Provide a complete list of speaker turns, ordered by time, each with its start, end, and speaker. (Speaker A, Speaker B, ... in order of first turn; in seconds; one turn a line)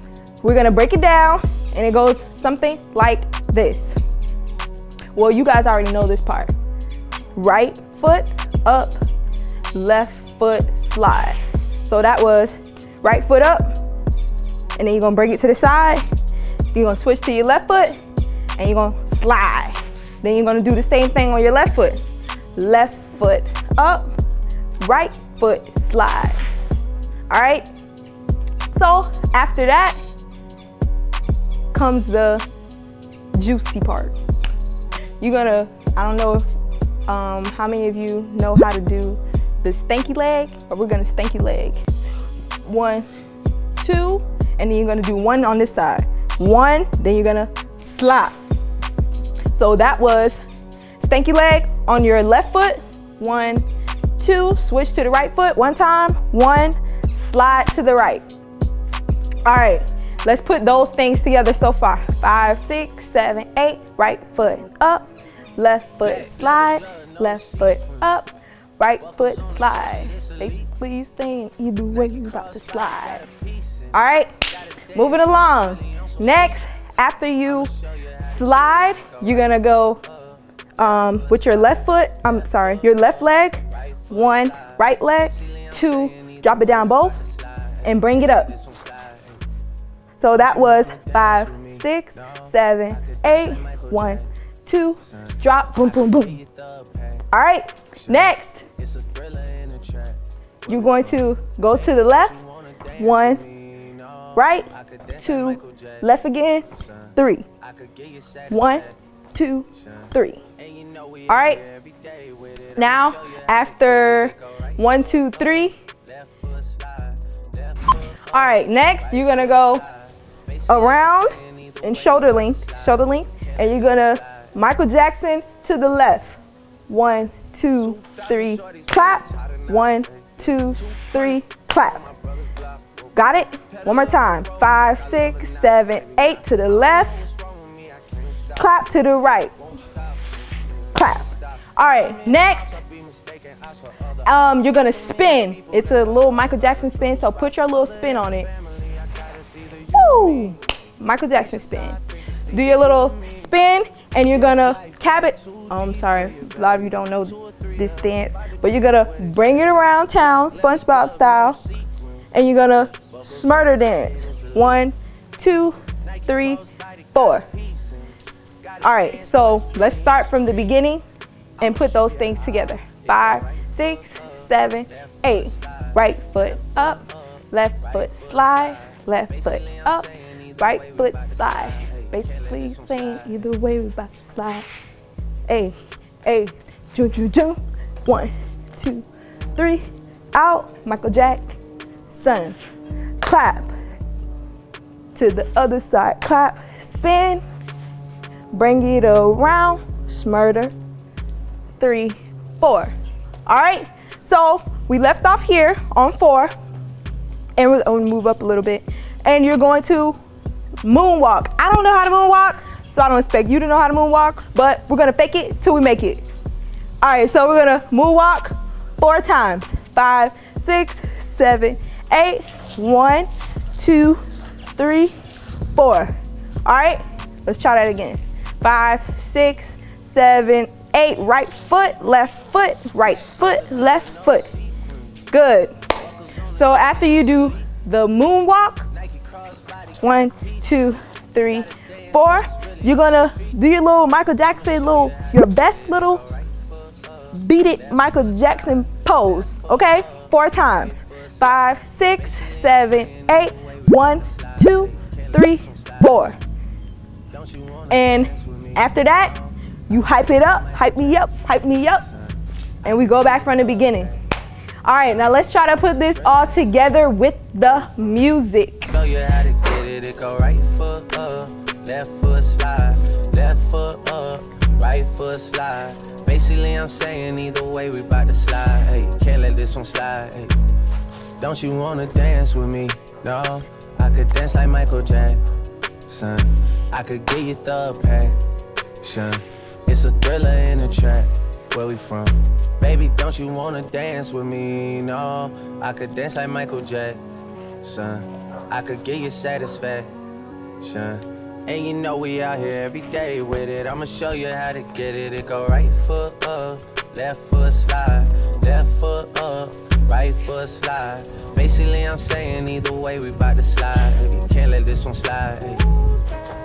Speaker A: 0.4-4.0
Speaker A: 5.1-6.5
Speaker A: 7.3-9.0
Speaker A: 9.7-13.8
Speaker A: 14.8-16.0
Speaker A: 16.7-18.0
Speaker A: 18.6-22.0
Speaker A: 22.6-24.1
Speaker A: 24.8-26.4
Speaker A: 27.3-27.6
Speaker A: 28.7-30.0
Speaker A: 31.7-32.4
Speaker A: 33.3-34.1
Speaker A: 35.2-36.5
Speaker A: 37.1-41.8
Speaker A: 42.6-43.1
Speaker A: 43.8-48.4
Speaker A: 49.5-50.5
Speaker A: 51.0-53.6
Speaker A: 54.2-58.2
Speaker A: 59.4-73.3
Speaker B: 66.0-67.8
Speaker B: 69.2-70.5
Speaker B: 72.1-73.9
Speaker A: 73.9-74.3
Speaker A: 74.9-80.0
Speaker B: 75.0-76.5
Speaker B: 77.9-79.1
Speaker A: 80.8-87.2
Speaker B: 84.3-84.7
Speaker B: 85.4-89.4
Speaker A: 87.8-88.5
Speaker A: 90.2-96.4
Speaker B: 90.4-91.8
Speaker B: 93.0-94.2
Speaker B: 95.8-97.3
Speaker A: 97.3-98.6
Speaker B: 98.1-101.3
Speaker A: 100.7-102.3
Speaker B: 101.9-106.0
Speaker A: 103.0-103.4
Speaker A: 104.3-107.5
Speaker B: 106.7-108.9
Speaker A: 108.5-110.4
Speaker B: 110.6-124.2
Speaker A: 111.3-111.6
Speaker A: 112.8-115.8
Speaker A: 118.3-119.8
Speaker A: 120.7-132.1
Speaker B: 128.0-129.7
Speaker B: 132.4-132.7
Speaker A: 133.1-137.2
Speaker B: 133.8-136.0
Speaker B: 136.8-138.5
Speaker A: 138.6-139.5
Speaker A: 140.9-142.8
Speaker B: 142.3-144.1
Speaker A: 144.2-148.5
Speaker B: 148.3-150.3
Speaker A: 149.9-161.6
Speaker B: 154.6-157.7
Speaker B: 160.7-161.7
Speaker A: 162.3-167.5
Speaker B: 163.0-164.6
Speaker B: 166.2-167.9
Speaker A: 168.8-171.0
Speaker A: 171.6-184.7
Speaker B: 175.4-175.9
Speaker B: 178.0-178.7
Speaker B: 179.3-183.2
Speaker A: 185.5-192.6
Speaker A: 193.2-193.7
Speaker A: 195.1-197.4
Speaker A: 198.5-200.7
Speaker A: 201.8-202.9
Speaker A: 203.4-206.5
Speaker A: 207.6-210.2
Speaker A: 210.8-216.2
Speaker A: 217.0-225.1
Speaker A: 225.7-234.5
Speaker B: 233.8-234.5
Speaker A: 235.3-235.7
Speaker A: 236.5-238.9
Speaker B: 239.0-240.0
Speaker A: 240.0-246.2
Speaker B: 241.8-243.4
Speaker B: 244.7-248.6
Speaker A: 247.3-256.4
Speaker B: 249.6-250.0
Speaker B: 252.3-256.0
Speaker B: 257.3-259.3
Speaker A: 257.9-259.4
Speaker A: 259.9-262.1
Speaker A: 262.8-264.1
Speaker A: 264.8-268.9
Speaker B: 268.9-280.8
Speaker B: 281.4-288.4
Speaker B: 289.0-297.2
Speaker B: 297.8-300.2
Speaker B: 300.8-316.0